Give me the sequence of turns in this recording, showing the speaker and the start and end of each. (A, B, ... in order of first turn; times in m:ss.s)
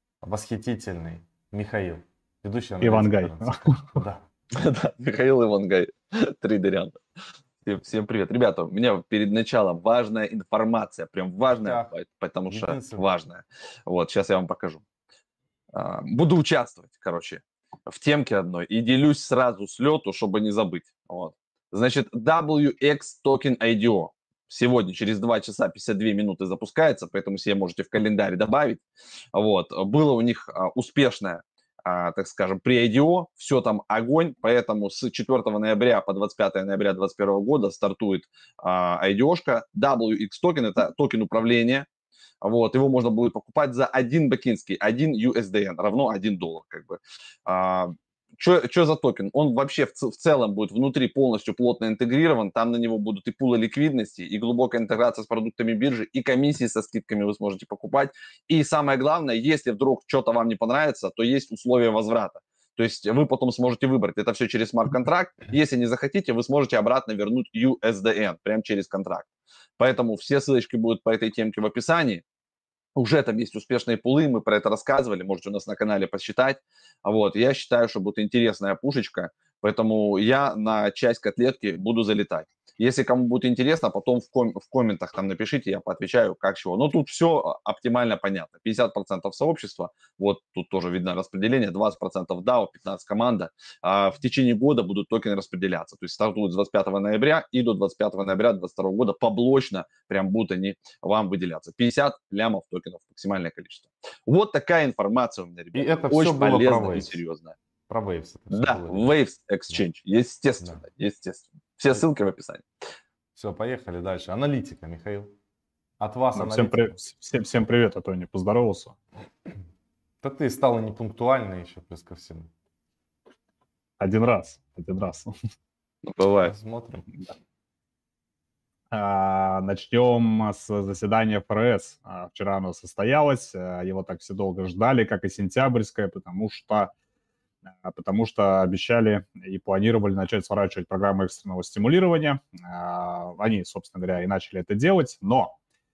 0:00.2-0:04.3 A
0:02.8-0:04.0 B
0:04.5-0:07.0 C
0:07.6-0:14.8 C
0:11.5-0:11.9 A
0:12.4-0:13.0 A
0:15.7-0:28.8 C
0:29.3-0:41.9 C
0:42.4-1:12.2 C
1:12.9-1:47.6 C
1:45.7-1:47.2 A
1:47.9-1:49.2 A
1:48.5-1:52.6 C
1:53.3-1:55.3 A
1:56.0-1:57.0 A
1:56.3-1:59.0 B
2:00.2-2:02.5 A
2:04.0-2:05.3 B
2:06.0-2:06.5 C
2:06.4-2:07.1 A
2:08.9-2:16.9 B
2:17.8-2:25.6 B